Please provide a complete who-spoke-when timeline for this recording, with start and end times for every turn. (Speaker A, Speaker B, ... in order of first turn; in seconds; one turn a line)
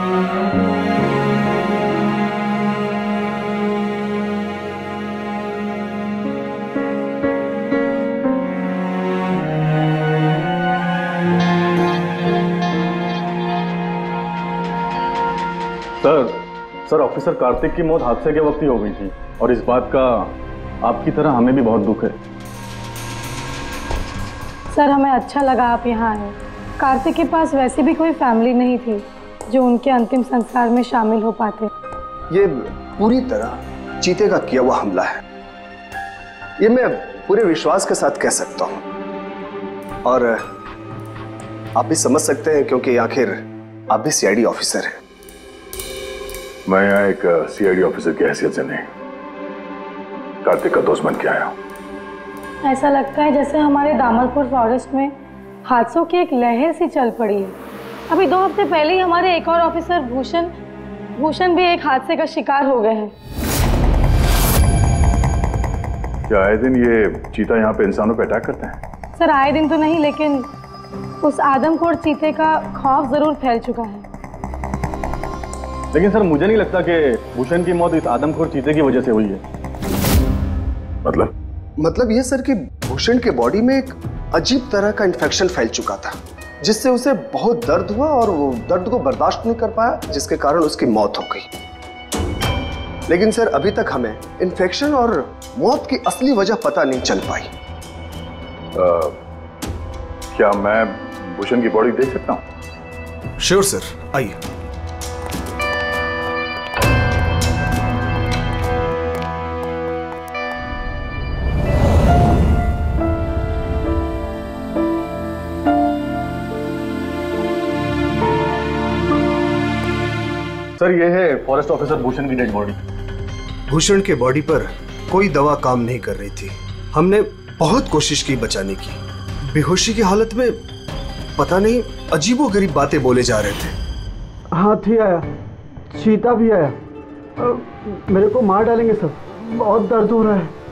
Speaker A: 16.0-22.2
Speaker B: 24.7-31.7
Speaker C: 32.3-35.2
Speaker C: 36.6-38.8
Speaker C: 40.0-40.5
Speaker C: 41.8-44.9
Speaker D: 46.7-48.9
Speaker D: 50.4-51.5
Speaker B: 52.6-55.1
Speaker B: 55.7-57.5
Speaker B: 58.1-60.5
Speaker B: 61.2-63.1
Speaker D: 66.3-68.8
Speaker B: 69.2-70.5
Speaker B: 71.2-74.1
Speaker A: 75.9-79.4
Speaker D: 81.0-81.3
Speaker C: 81.8-91.5
Speaker C: 93.1-97.5
Speaker D: 98.8-99.2
Speaker D: 100.3-102.4
Speaker C: 103.4-104.4
Speaker A: 120.8-122.8
Speaker C: 123.7-130.6
Speaker C: 131.4-133.8
Speaker E: 134.6-135.2
Speaker E: 136.0-136.7
Speaker E: 138.1-139.1
Speaker E: 139.7-140.5